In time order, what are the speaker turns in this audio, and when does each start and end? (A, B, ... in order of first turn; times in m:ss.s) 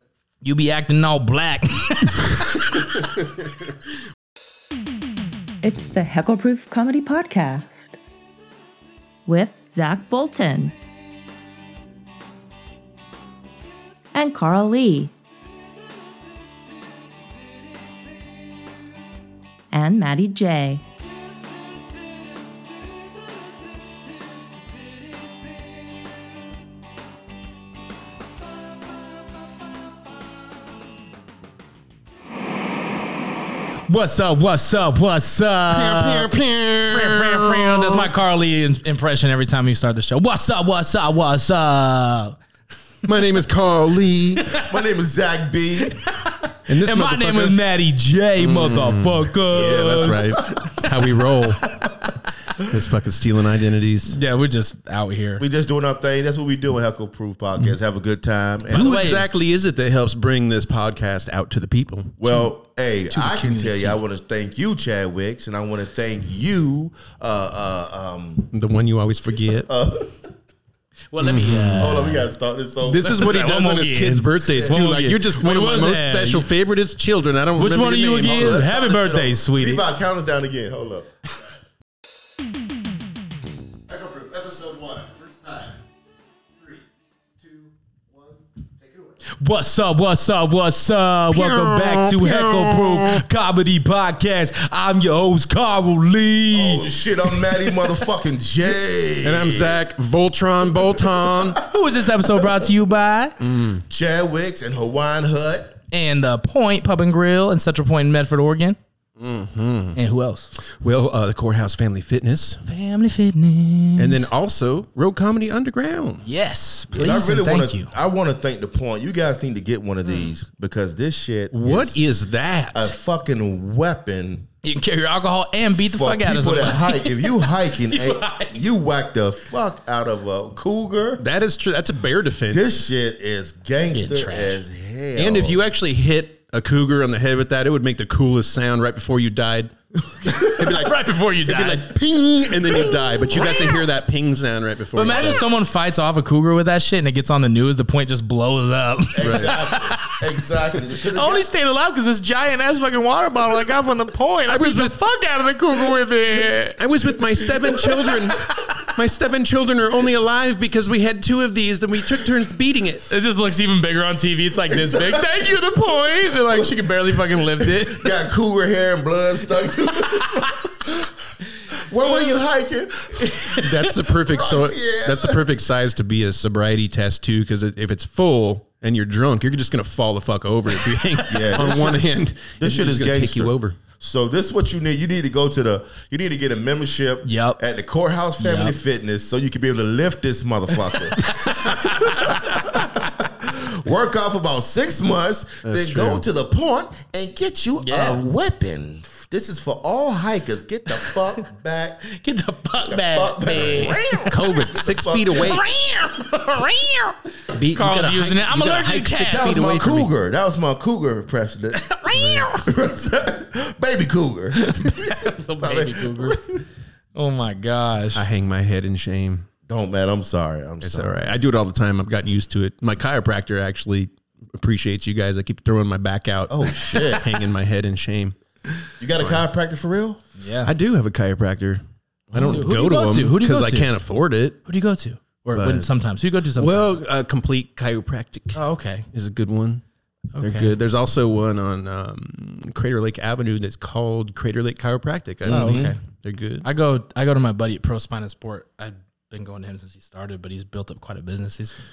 0:00.4-0:02.8 A
0:05.6-0:08.0 B
0:09.2-0:10.7 B
0:14.1-0:15.1 B
0:19.7-0:20.8 B
0:33.9-0:36.3 A
0:35.7-0:38.1 C
0:36.8-0:42.4 A
0:43.0-0:44.4 C
0:43.9-0:46.0 D
0:45.9-0:50.8 A
0:46.7-0:47.6 C
0:48.4-0:51.8 C
0:49.5-0:50.8 D
0:52.6-0:54.2 C
0:54.1-0:55.4 A
0:55.4-0:59.0 D
0:58.7-0:59.3 A
0:58.7-1:02.2 C
1:02.2-1:08.5 D
1:03.1-1:04.0 A
1:08.5-1:09.7 C
1:09.6-1:10.2 D
1:11.1-1:12.3 A
1:11.2-1:11.9 C
1:11.8-1:13.7 D
1:12.8-1:18.6 C
1:13.1-1:16.5 A
1:14.5-1:14.8 D
1:17.6-1:19.8 A
1:18.2-1:21.1 D
1:24.5-1:25.7 C
1:29.4-1:37.7 A
1:31.3-1:33.2 C
1:36.5-1:39.8 D
1:39.2-1:41.6 C
1:41.1-1:41.6 D
1:41.6-1:43.4 A
1:43.4-1:43.8 C
1:43.9-1:45.8 D
1:45.9-1:48.8 A
1:49.2-1:50.0 C
1:49.9-1:50.5 A
1:50.8-1:52.6 C
1:52.6-1:54.3 A
1:54.0-1:56.3 C
1:56.2-1:57.9 A
1:56.9-2:02.0 D
2:01.5-2:02.9 C
2:02.7-2:04.5 D
2:04.6-2:08.6 A
2:05.7-2:11.2 D
2:11.2-2:12.8 C
2:12.5-2:15.6 D
2:13.9-2:14.6 A
2:15.2-2:25.4 C
2:20.2-2:22.0 A
2:22.6-2:23.7 A
2:24.9-2:30.2 A
2:29.1-2:31.5 D
2:29.2-2:29.6 C
2:31.1-2:36.8 A
2:34.5-2:34.9 C
2:36.8-2:43.0 C
2:37.4-2:38.9 A
2:43.1-2:48.1 A
2:44.7-2:45.4 D
2:46.5-2:51.1 D
2:50.1-2:50.5 A
2:51.7-2:55.4 D
2:53.2-2:53.7 A
2:53.6-3:03.8 C
3:01.3-3:22.0 D
3:07.2-3:07.6 A
3:08.4-3:08.7 A
3:11.2-3:12.7 A
3:15.6-3:16.2 C
3:17.8-3:18.2 A
3:22.1-3:24.3 A
3:22.9-3:24.1 D
3:23.8-3:25.6 C
3:24.7-3:25.6 D
3:25.3-3:29.9 A
3:27.5-3:30.1 C
3:29.3-3:31.9 D
3:31.7-3:32.6 A
3:32.1-3:32.5 C
3:32.5-3:36.6 D
3:34.5-3:36.4 A
3:37.1-3:38.2 A
3:38.1-3:39.4 C
3:39.7-3:41.3 D
3:40.8-3:48.3 C
3:46.5-3:47.3 D
3:49.0-3:50.2 D
3:49.2-3:49.4 C
3:50.4-3:50.7 A
3:50.6-3:51.8 C
3:52.3-3:52.6 D
3:52.3-3:54.6 C
3:52.4-3:53.9 A
3:54.6-3:57.0 A
3:55.6-3:55.9 C
3:56.6-3:58.6 C
3:58.5-3:59.0 A
3:59.1-3:59.8 C
4:00.3-4:00.7 A
4:00.4-4:06.6 C
4:05.4-4:06.0 D
4:05.5-4:06.0 A
4:06.6-4:11.7 A